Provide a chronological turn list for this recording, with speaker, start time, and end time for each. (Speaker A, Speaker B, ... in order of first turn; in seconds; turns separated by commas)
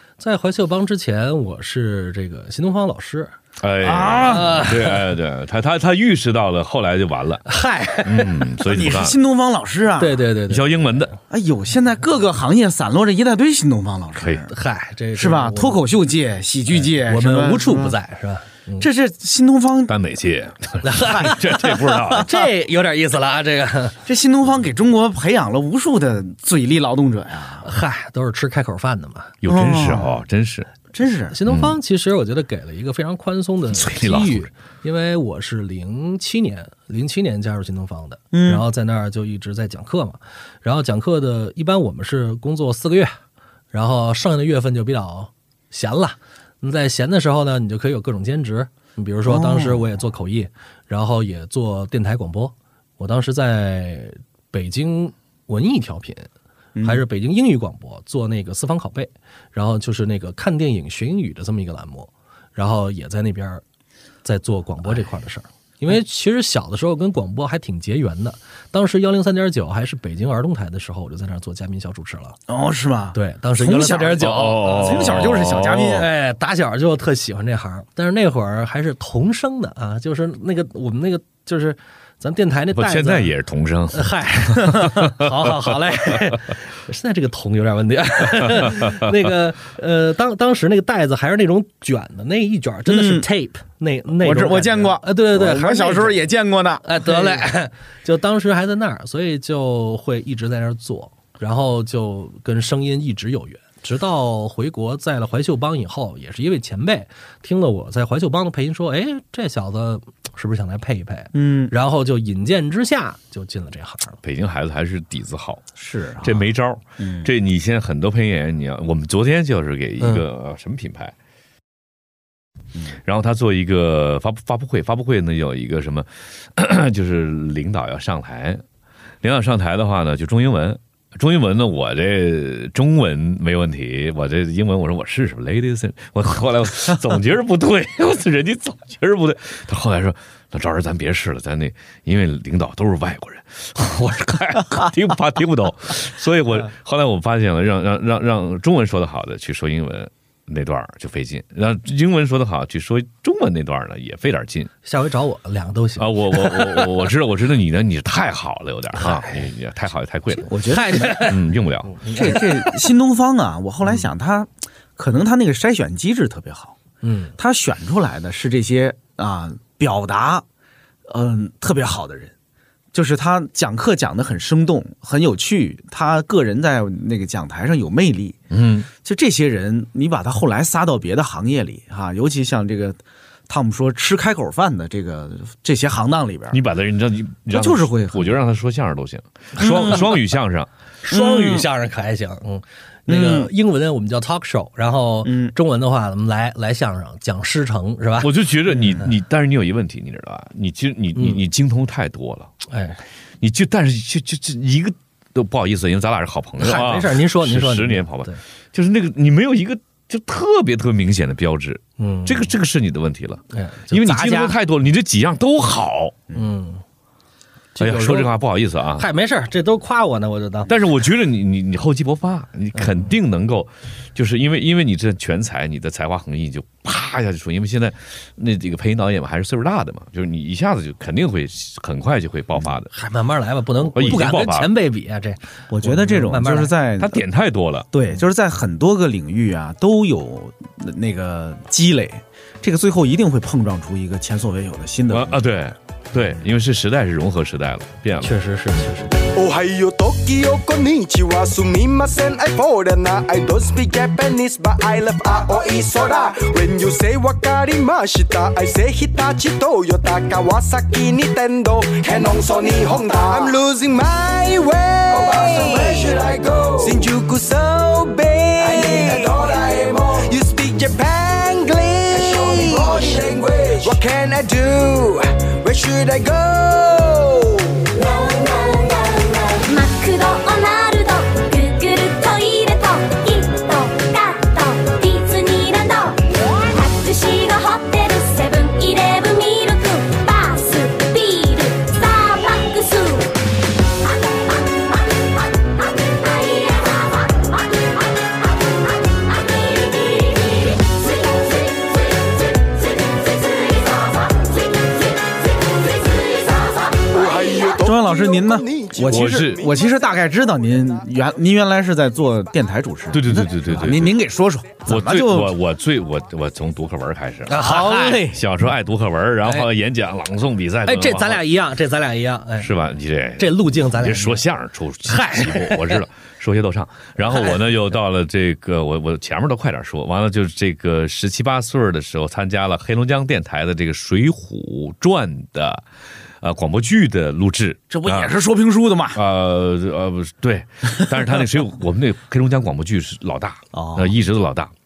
Speaker A: 0.2-3.3, Speaker B: 3.6-7.4, Speaker C: 3.8-4.6, Speaker A: 4.3-5.0, Speaker A: 7.5-8.4, Speaker B: 8.0-9.2, Speaker C: 8.6-10.2, Speaker A: 10.0-11.2, Speaker B: 10.5-11.1, Speaker C: 11.3-14.5, Speaker B: 14.2-14.4, Speaker A: 14.5-15.8, Speaker C: 15.1-17.9, Speaker A: 17.0-18.9, Speaker C: 18.8-19.9, Speaker B: 19.9-22.3, Speaker A: 20.8-21.4, Speaker C: 21.0-22.3, Speaker A: 22.2-24.0, Speaker C: 24.1-27.6, Speaker A: 27.6-29.3, Speaker B: 29.4-30.7, Speaker C: 29.4-30.1, Speaker C: 30.9-31.4, Speaker A: 31.3-43.1, Speaker B: 31.4-31.8, Speaker B: 33.7-34.5, Speaker C: 38.3-38.6, Speaker A: 43.7-56.3, Speaker C: 49.2-49.8, Speaker C: 56.7-57.0, Speaker A: 56.8-63.6, Speaker A: 64.2-72.4, Speaker C: 72.5-76.1, Speaker A: 73.1-83.3, Speaker B: 74.2-76.0, Speaker B: 82.7-86.2, Speaker A: 83.9-96.2, Speaker B: 88.6-89.1, Speaker C: 92.9-93.2, Speaker C: 94.2-97.4, Speaker A: 96.8-114.2, Speaker C: 111.3-111.7, Speaker B: 114.2-115.6, Speaker C: 115.8-116.5, Speaker B: 116.2-121.1, Speaker C: 117.0-117.3, Speaker B: 123.0-128.6, Speaker B: 129.2-154.7, Speaker A: 154.8-157.0, Speaker B: 156.0-162.0, Speaker A: 158.9-159.5, Speaker C: 160.5-161.4, Speaker A: 160.7-162.8, Speaker C: 162.1-166.8, Speaker A: 167.0-167.3, Speaker C: 167.4-170.4, Speaker C: 171.1-172.3, Speaker C: 172.9-178.4, Speaker B: 178.5-178.9, Speaker C: 179.0-186.6, Speaker B: 186.5-190.7, Speaker C: 187.5-188.3, Speaker A: 189.6-190.0, Speaker A: 191.0-198.3, Speaker C: 191.1-191.6, Speaker C: 193.1-193.5, Speaker C: 195.2-195.5, Speaker B: 198.2-202.5, Speaker A: 201.1-201.4, Speaker A: 202.7-203.0, Speaker B: 203.4-216.2, Speaker A: 206.6-208.4, Speaker A: 212.0-212.5, Speaker A: 213.5-214.5, Speaker A: 216.3-216.8, Speaker A: 217.7-218.3, Speaker B: 217.8-219.1, Speaker A: 219.0-220.7, Speaker B: 220.7-232.9, Speaker A: 232.9-236.7, Speaker B: 233.8-234.7, Speaker C: 235.7-237.2, Speaker B: 237.0-237.9, Speaker C: 237.9-245.4, Speaker B: 245.1-248.3, Speaker A: 248.2-249.1, Speaker D: 249.3-279.6, Speaker E: 279.6-293.4, Speaker E: 294.1-294.9, Speaker E: 295.9-297.4, Speaker E: 299.3-301.5, Speaker E: 303.8-304.2, Speaker D: 307.1-309.9, Speaker C: 307.8-315.5, Speaker B: 309.0-309.7, Speaker B: 313.1-314.2, Speaker B: 314.9-317.7, Speaker A: 317.5-318.3, Speaker C: 317.6-318.4, Speaker B: 318.3-321.4, Speaker A: 320.8-322.7, Speaker B: 322.6-335.8, Speaker A: 323.4-324.4, Speaker A: 325.1-326.0, Speaker B: 336.4-338.3, Speaker C: 337.9-339.2, Speaker B: 339.1-344.7, Speaker C: 343.7-344.1